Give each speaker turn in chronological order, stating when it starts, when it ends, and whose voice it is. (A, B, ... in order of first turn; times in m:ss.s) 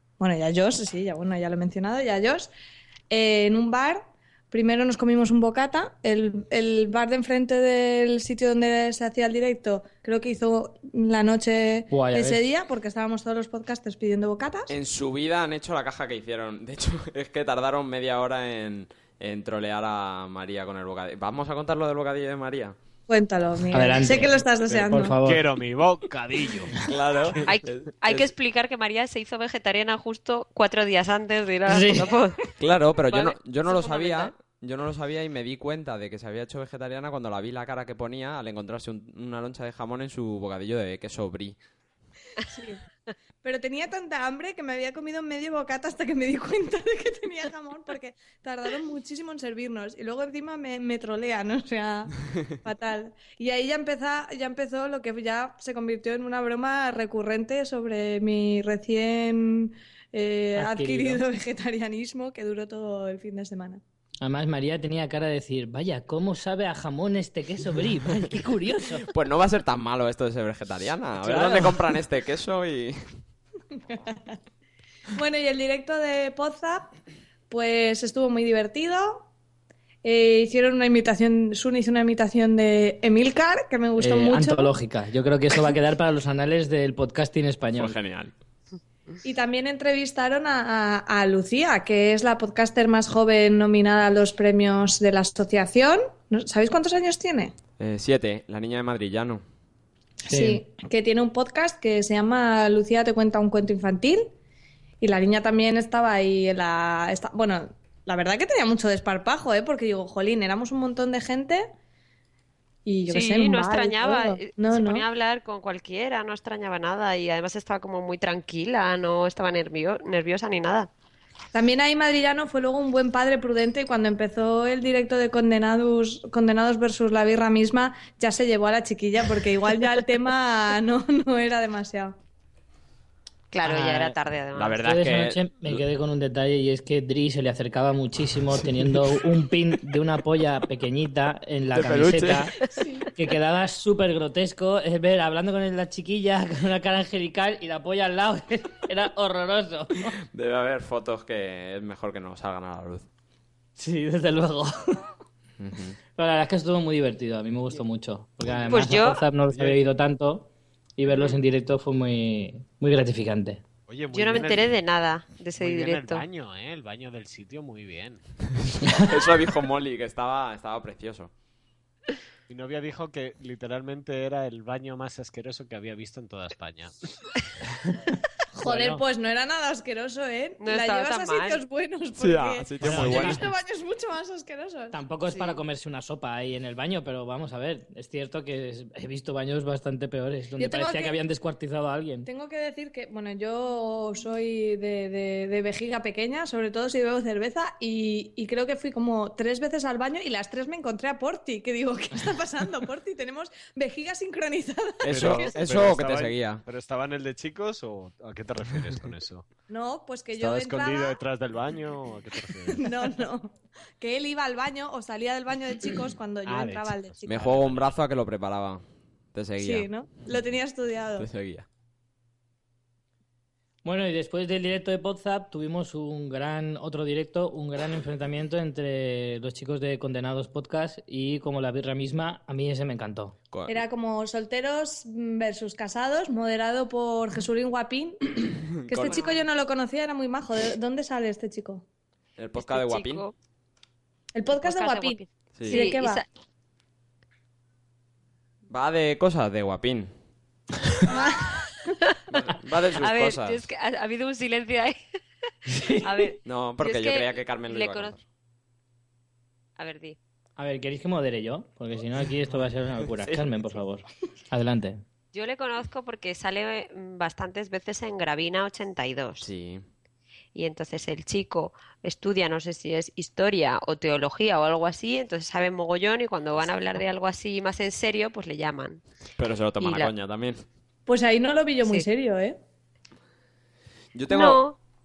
0:00.2-0:02.5 A
0:03.1-0:14.7 A
0:11.9-0:12.4 B
0:14.7-0:22.7 C
0:23.1-0:25.2 A
0:23.7-0:25.4 B
0:24.7-0:26.7 D
0:26.8-0:28.3 C
0:27.4-0:32.5 E
0:31.7-0:32.1 B
0:32.6-0:41.6 C
0:33.1-0:34.3 E
0:42.4-0:42.8 A
0:43.4-1:03.8 A
1:00.6-1:01.2 B
1:04.2-1:09.1 B
1:09.0-1:13.0 C
1:11.2-1:11.8 B
1:13.9-1:14.4 A
1:15.1-1:16.9 A
1:17.5-1:19.3 A
1:20.0-1:24.7 A
1:24.0-1:28.0 B
1:27.8-1:28.3 C
1:29.2-1:37.5 A
1:37.8-1:39.4 C
1:40.3-1:40.6 B
1:40.3-1:44.3 A
1:45.0-1:51.6 A
1:52.8-1:55.0 A
1:53.1-2:00.9 E
2:01.5-2:12.2 A
2:13.5-2:14.8 E
2:13.6-2:14.2 B
2:14.5-2:15.8 C
2:14.8-2:22.5 B
2:21.7-2:22.5 C
2:22.7-2:23.1 A
2:23.1-2:30.1 B
2:30.3-2:33.0 C
2:33.8-2:35.1 B
2:35.6-2:36.0 C
2:36.2-2:43.6 B
2:38.7-2:39.2 E
2:39.5-2:39.8 D
2:43.9-2:44.8 D
2:44.1-2:46.2 E
2:45.6-2:48.2 D
2:48.6-2:51.3 C
2:52.5-2:57.1 D
2:57.8-2:59.0 B
2:58.5-3:05.0 A
3:00.6-3:01.6 E
3:02.1-3:03.5 C
3:02.8-3:03.4 B
3:04.9-3:12.3 B
3:10.6-3:11.2 A
3:12.2-3:25.5 A
3:25.0-3:26.6 C
3:25.1-3:29.5 D
3:29.7-3:31.2 A
3:30.4-3:32.9 D
3:32.7-3:37.5 A
3:36.4-3:37.9 D
3:37.2-3:38.8 C
3:39.3-3:39.9 C
3:39.6-3:41.3 A
3:41.2-3:41.6 C
3:43.8-3:53.4 B
3:53.5-3:53.8 C
3:53.7-4:01.8 A
3:58.7-3:59.4 C
3:59.1-3:59.4 E
4:02.4-4:03.2 C
4:02.6-4:03.3 E
4:04.3-4:06.2 A
4:04.6-4:06.2 E
4:05.5-4:05.9 C
4:08.7-4:10.1 C
4:11.1-4:11.6 A
4:12.0-4:12.4 E
4:12.3-4:13.6 C
4:13.0-4:15.0 E
4:15.7-4:16.3 B
4:15.9-4:18.1 E
4:16.4-4:18.2 C
4:19.8-4:20.2 E
4:20.6-4:25.0 B
4:25.3-4:29.5 E
4:29.4-4:29.8 C
4:30.5-4:39.0 E
4:39.4-4:40.6 C
4:39.8-4:40.1 E
4:41.1-4:42.6 A
4:44.1-4:44.6 C
4:44.3-4:44.8 E